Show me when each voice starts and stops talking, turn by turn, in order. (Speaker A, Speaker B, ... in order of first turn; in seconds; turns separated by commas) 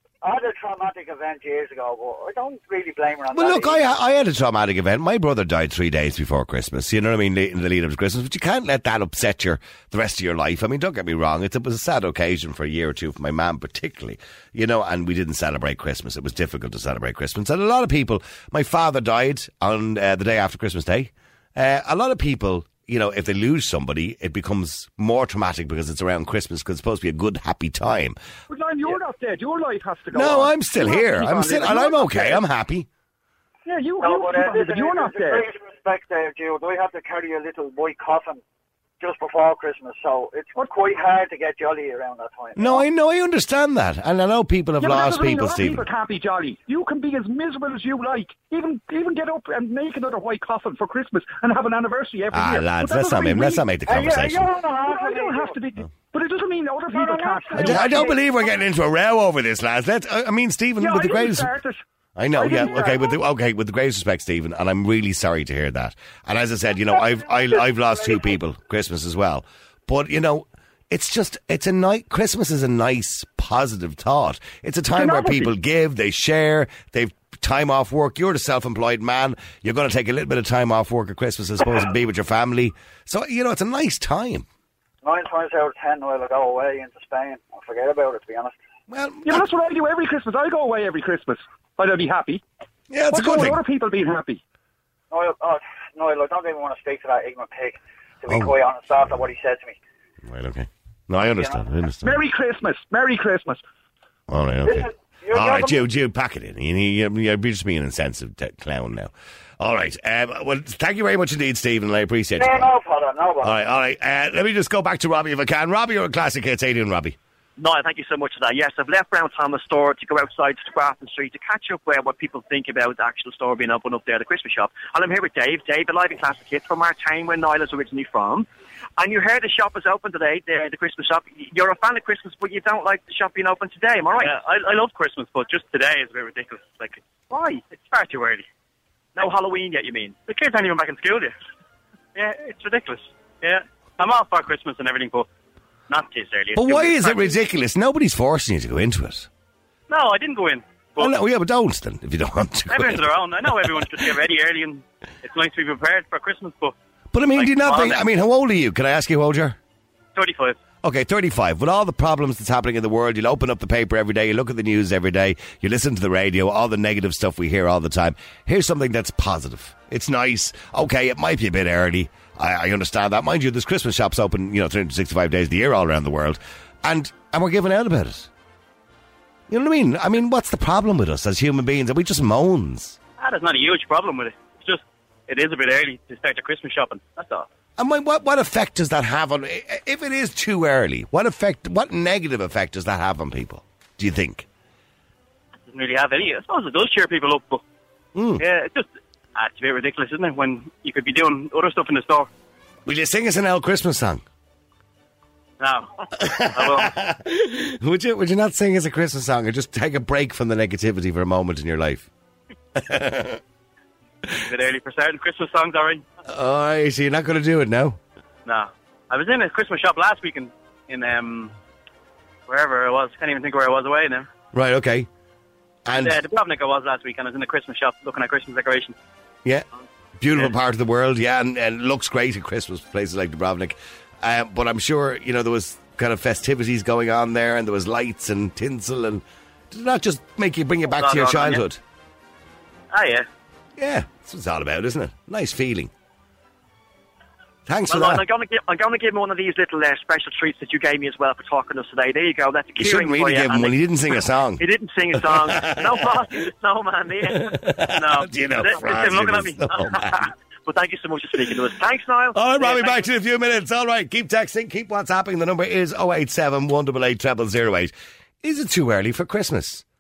Speaker A: 0.2-3.8, Speaker B: 3.3-28.2, Speaker C: 28.5-32.3, Speaker B: 30.1-32.9, Speaker A: 30.9-31.4, Speaker C: 33.6-35.5, Speaker A: 34.0-38.4, Speaker A: 39.0-42.9, Speaker B: 42.6-45.9, Speaker C: 44.8-53.7, Speaker B: 52.3-54.5, Speaker A: 53.9-55.6, Speaker C: 54.8-58.2, Speaker A: 56.9-58.5, Speaker B: 57.6-61.5, Speaker C: 60.8-61.8, Speaker B: 62.2-84.5, Speaker C: 62.3-63.1, Speaker A: 67.0-67.5, Speaker C: 75.0-75.5, Speaker A: 85.0-88.6, Speaker B: 88.9-89.4, Speaker C: 89.2-92.4, Speaker B: 92.9-93.6, Speaker C: 93.1-94.4, Speaker A: 95.1-99.8, Speaker B: 98.3-98.6, Speaker B: 100.2-102.2, Speaker A: 101.3-101.7, Speaker C: 102.0-103.6, Speaker B: 104.3-112.7, Speaker A: 104.6-105.9, Speaker A: 112.4-113.6, Speaker B: 113.4-117.2, Speaker D: 117.6-134.3, Speaker E: 134.2-138.5, Speaker D: 139.2-140.2, Speaker E: 140.2-141.3, Speaker E: 142.2-145.3, Speaker E: 145.9-147.4, Speaker B: 146.6-149.3, Speaker E: 149.9-151.2, Speaker B: 151.0-154.1, Speaker E: 152.7-156.8, Speaker B: 157.1-159.6, Speaker E: 157.3-158.1, Speaker E: 160.2-160.6, Speaker B: 160.8-178.3, Speaker B: 179.5-183.0, Speaker E: 183.2-187.5, Speaker B: 187.8-194.5, Speaker E: 195.7-197.6, Speaker B: 198.2-198.4, Speaker E: 198.4-202.3, Speaker B: 202.9-204.2, Speaker E: 205.6-206.9, Speaker B: 206.2-212.1, Speaker B: 212.8-213.4, Speaker E: 214.4-216.1, Speaker B: 216.3-218.0, Speaker E: 218.5-221.5, Speaker E: 222.5-224.3, Speaker B: 224.5-225.1, Speaker B: 225.9-226.2, Speaker E: 225.9-229.0, Speaker B: 230.2-241.8, Speaker E: 241.0-241.6, Speaker D: 242.9-243.3, Speaker B: 243.8-245.9, Speaker B: 247.7-248.2, Speaker D: 247.9-253.8, Speaker B: 252.8-256.2, Speaker D: 254.6-263.0, Speaker B: 257.3-260.3, Speaker E: 258.2-259.6, Speaker B: 262.4-269.8